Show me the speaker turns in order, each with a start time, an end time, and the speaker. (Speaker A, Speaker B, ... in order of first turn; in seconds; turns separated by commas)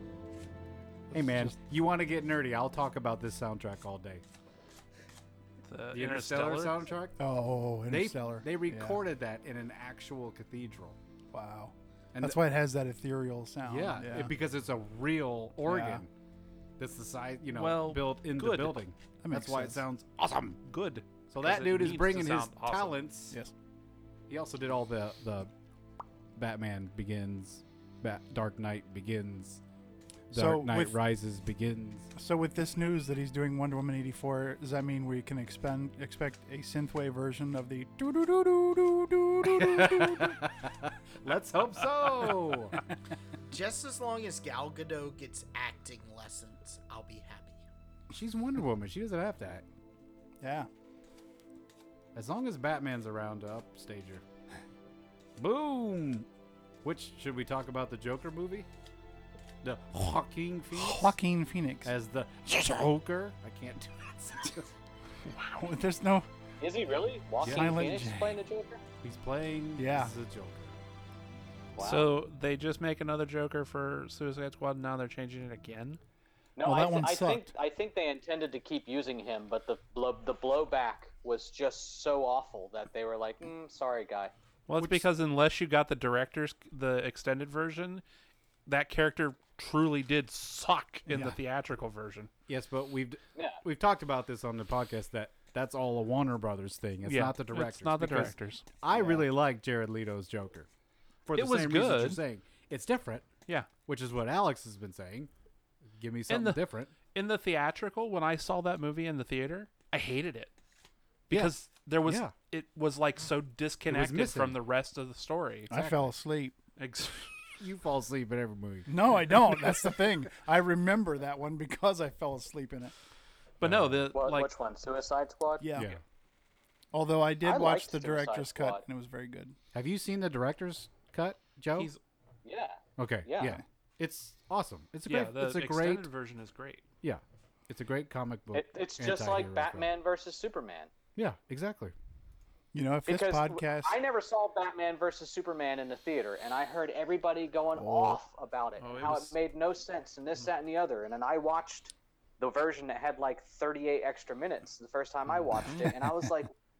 Speaker A: 1.1-1.6, Speaker B: 1.1-4.2, Speaker C: 5.7-6.8, Speaker B: 5.9-7.2, Speaker A: 7.2-9.0, Speaker B: 7.9-11.0, Speaker A: 11.3-14.3, Speaker B: 12.1-12.4, Speaker B: 13.6-16.1, Speaker A: 15.6-16.0, Speaker B: 16.8-20.6, Speaker C: 17.5-18.8, Speaker A: 19.2-19.8, Speaker C: 20.6-22.9, Speaker B: 21.3-23.4, Speaker B: 24.3-25.5, Speaker B: 26.4-29.6, Speaker A: 30.3-30.9, Speaker B: 30.3-32.1, Speaker A: 32.1-40.5, Speaker B: 39.4-42.8, Speaker D: 43.5-47.6, Speaker B: 48.1-49.6, Speaker A: 50.4-50.7, Speaker B: 52.1-54.2, Speaker B: 55.4-56.3, Speaker B: 56.8-58.7, Speaker B: 59.6-61.1, Speaker A: 60.7-61.9, Speaker B: 61.8-64.7, Speaker A: 65.5-66.3, Speaker E: 66.6-68.8, Speaker B: 67.4-67.7, Speaker A: 67.4-68.4, Speaker B: 69.0-70.8, Speaker A: 69.8-70.1, Speaker E: 71.8-72.1, Speaker C: 71.8-76.0, Speaker E: 76.6-84.3, Speaker A: 76.6-77.5, Speaker C: 84.7-88.0, Speaker A: 84.8-85.0, Speaker C: 88.7-92.3, Speaker A: 91.1-91.4, Speaker B: 92.5-100.7, Speaker E: 93.3-93.6, Speaker C: 97.0-98.7, Speaker B: 101.2-103.2, Speaker C: 101.3-102.2, Speaker B: 103.8-105.3, Speaker B: 106.0-106.9, Speaker C: 106.3-106.6, Speaker C: 107.1-110.5, Speaker C: 111.3-115.7, Speaker B: 111.3-112.3, Speaker B: 113.9-114.6, Speaker A: 115.7-116.5, Speaker B: 115.7-116.1, Speaker C: 116.8-117.3, Speaker B: 117.6-120.0, Speaker A: 118.9-122.9, Speaker C: 123.6-124.5, Speaker B: 123.6-124.1, Speaker E: 124.1-125.7, Speaker A: 125.6-125.9, Speaker B: 125.8-126.0, Speaker A: 126.9-129.6, Speaker E: 127.4-128.8, Speaker B: 129.7-131.9, Speaker C: 131.7-132.0, Speaker E: 132.4-133.6, Speaker B: 133.0-136.1, Speaker C: 135.1-136.8, Speaker B: 137.0-139.9, Speaker E: 138.5-140.9, Speaker B: 141.2-141.9, Speaker A: 142.7-144.0, Speaker E: 143.1-156.5, Speaker A: 147.8-148.2, Speaker C: 148.8-149.3, Speaker B: 155.6-156.1, Speaker C: 155.6-155.9